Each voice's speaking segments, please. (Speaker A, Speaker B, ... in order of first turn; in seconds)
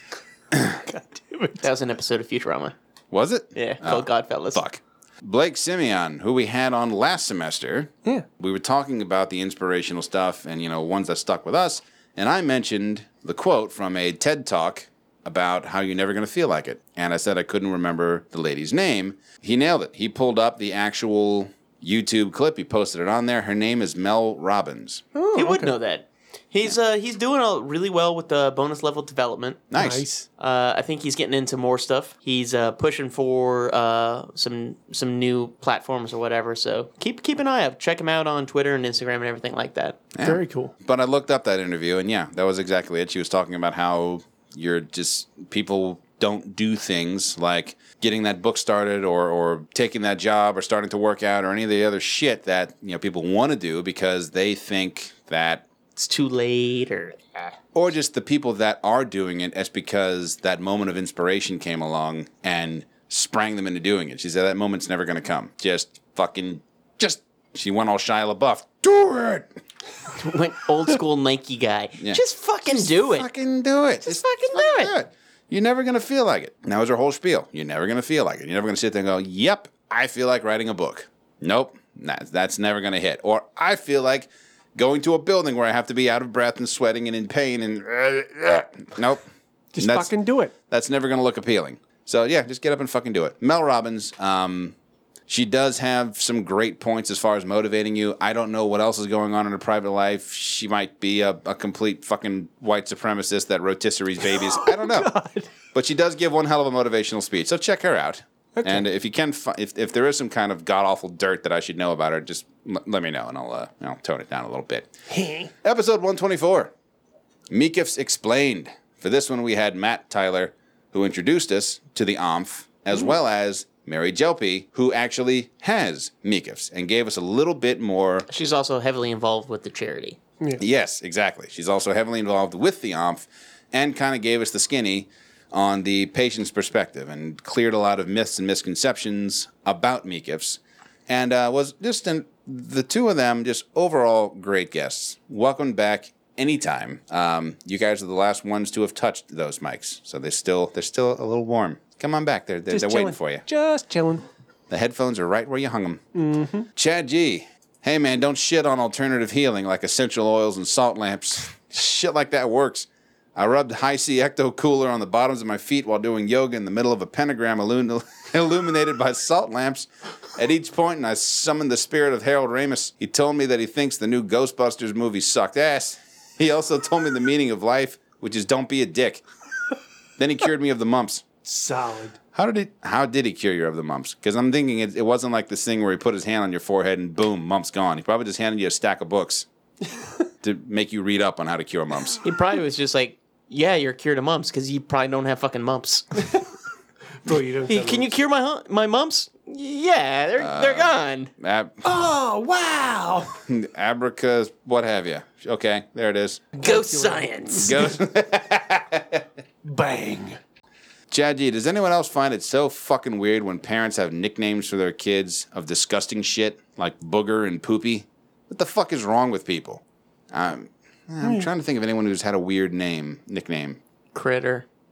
Speaker A: 0.8-1.6, 25.1-25.7, 29.8-30.3, 40.2-40.7, 89.7-90.5, 104.3-105.5, 108.6-108.9, 115.1-115.5, 152.7-154.2, 156.2-156.7, 181.4-182.2, 197.2-198.1, 201.8-203.4, 206.6-207.9, 209.6-210.4
Speaker B: 1.6-2.7, 3.5-4.6, 25.4-29.7, 30.4-40.0, 56.0-57.5, 70.2-73.3, 74.0-74.9, 128.3-130.2, 192.2-196.2, 197.7-201.3, 206.6-207.8, 224.1-224.7
Speaker C: 3.1-25.0, 29.7-30.1, 40.1-55.6, 57.7-69.5, 72.0-89.2, 89.8-90.2, 90.7-94.8, 95.3-105.1, 105.7-114.9, 115.6-116.7, 117.5-128.3, 130.6-153.4, 154.7-156.0, 156.8-179.2, 180.2-181.3, 182.3-189.5, 190.4-192.2, 200.4-201.8, 203.5-206.4, 207.6-209.2, 211.1-223.8